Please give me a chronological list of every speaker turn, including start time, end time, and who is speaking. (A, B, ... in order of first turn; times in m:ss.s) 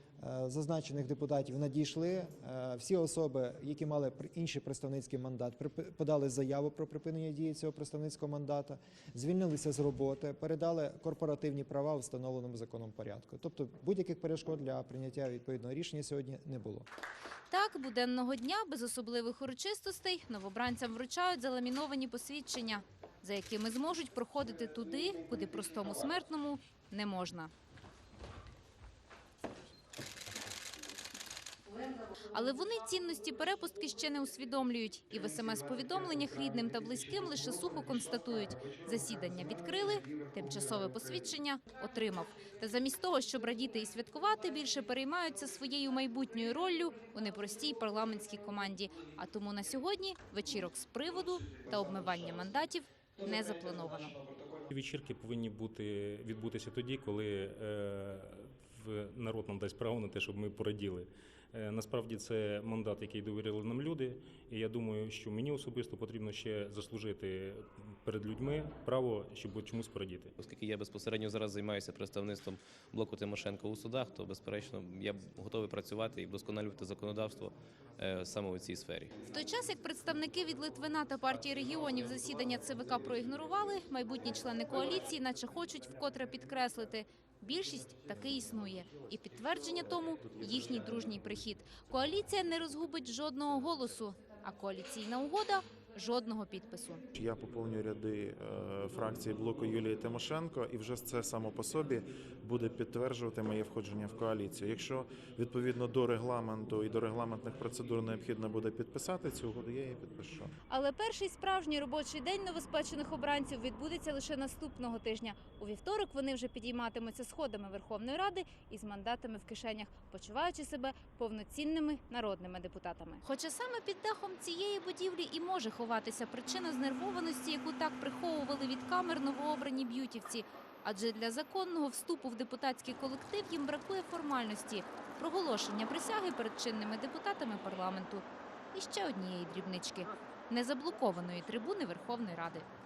0:00.2-0:16.8 A
0:17.5-0:27.5 B
0:32.2-0:54.2 B
0:54.7-1:10.3 C
1:10.4-1:19.2 D
1:19.3-1:37.0 B
1:37.1-1:50.5 E
1:50.7-2:22.7 B